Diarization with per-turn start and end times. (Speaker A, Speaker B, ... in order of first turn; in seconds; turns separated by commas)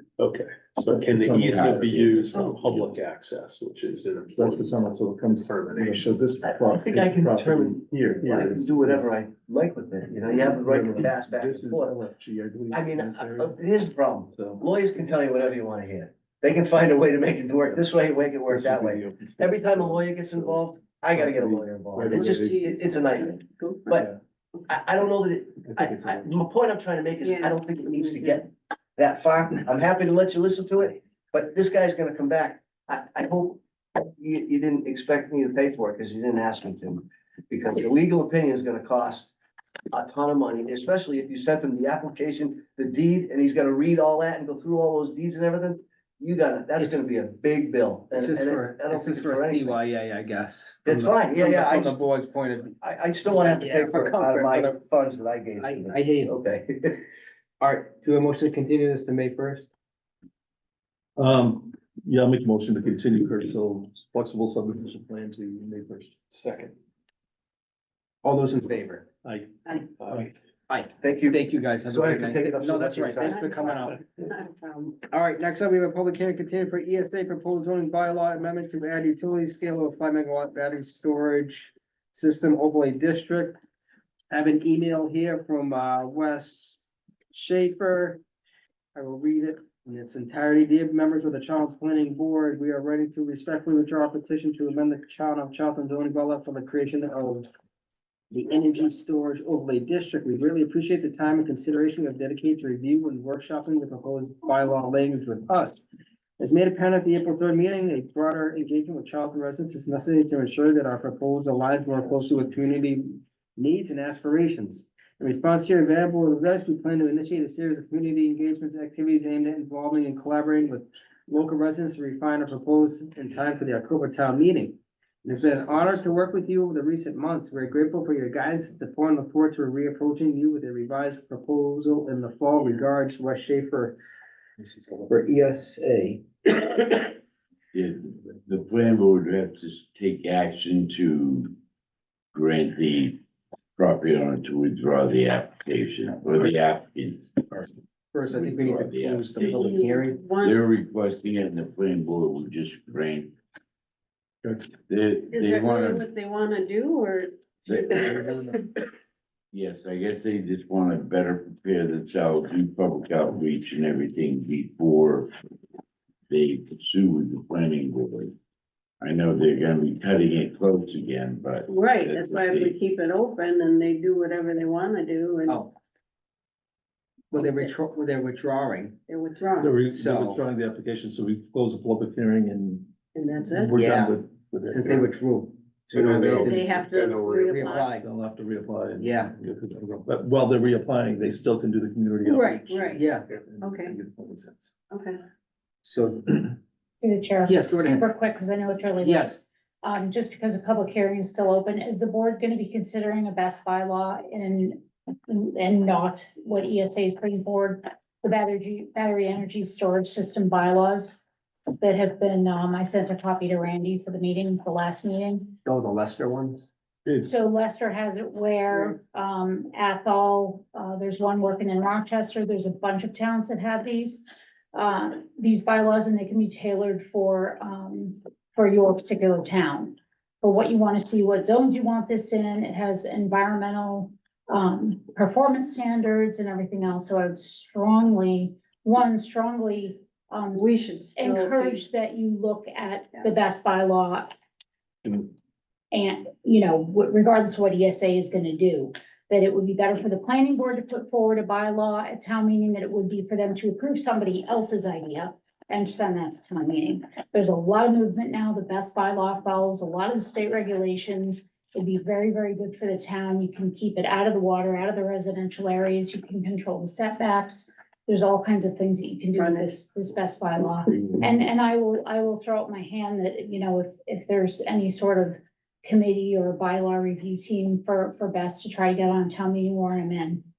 Speaker A: 0.1-4.8, Speaker B: 0.9-2.0, Speaker C: 1.4-2.9, Speaker D: 2.3-2.6, Speaker B: 4.3-9.2, Speaker A: 5.3-6.5, Speaker E: 6.4-12.0, Speaker B: 10.3-13.6, Speaker E: 12.7-24.1, Speaker B: 14.3-14.6, Speaker B: 18.5-22.6, Speaker D: 22.1-24.0, Speaker B: 23.9-24.2, Speaker E: 24.7-33.6, Speaker B: 25.7-26.3, Speaker D: 27.2-28.4, Speaker E: 34.2-39.3, Speaker E: 39.9-49.8, Speaker F: 48.1-52.7, Speaker E: 50.8-52.0, Speaker E: 52.8-57.0, Speaker F: 53.3-54.8, Speaker F: 55.6-56.4, Speaker F: 57.6-59.7, Speaker B: 61.1-66.7, Speaker F: 68.2-69.0, Speaker B: 69.2-70.3, Speaker F: 70.1-74.0, Speaker E: 71.0-74.0, Speaker D: 73.2-73.7, Speaker D: 74.2-75.0, Speaker F: 75.1-83.6, Speaker F: 84.3-86.8, Speaker F: 87.3-88.2, Speaker F: 88.9-97.5, Speaker F: 98.3-105.8, Speaker F: 106.4-133.9, Speaker F: 135.1-137.1, Speaker C: 137.7-141.5, Speaker C: 142.3-143.2, Speaker C: 143.8-147.7, Speaker F: 148.1-150.2, Speaker C: 148.3-149.8, Speaker D: 149.3-150.6, Speaker C: 150.4-153.3, Speaker C: 154.8-156.1, Speaker D: 155.3-158.8, Speaker C: 157.7-158.5, Speaker C: 159.5-165.3, Speaker C: 166.3-168.3, Speaker C: 169.0-172.7, Speaker D: 171.7-175.7, Speaker F: 177.3-178.9, Speaker D: 177.3-177.7, Speaker D: 179.1-179.8, Speaker B: 179.6-185.2, Speaker F: 179.9-180.4, Speaker D: 183.1-183.7, Speaker F: 183.8-184.2, Speaker F: 184.7-188.0, Speaker A: 186.0-187.6, Speaker D: 186.3-188.0, Speaker B: 187.9-194.7, Speaker F: 189.0-189.3, Speaker D: 192.2-193.1, Speaker F: 192.9-193.3, Speaker D: 193.6-193.9, Speaker D: 194.9-195.2, Speaker F: 195.8-196.6, Speaker G: 197.0-211.2, Speaker F: 197.4-198.1, Speaker F: 199.0-199.4, Speaker G: 211.8-215.6, Speaker F: 215.6-216.7, Speaker B: 217.1-217.3, Speaker G: 217.2-244.3, Speaker D: 240.5-241.8, Speaker G: 245.9-280.4, Speaker D: 269.3-269.8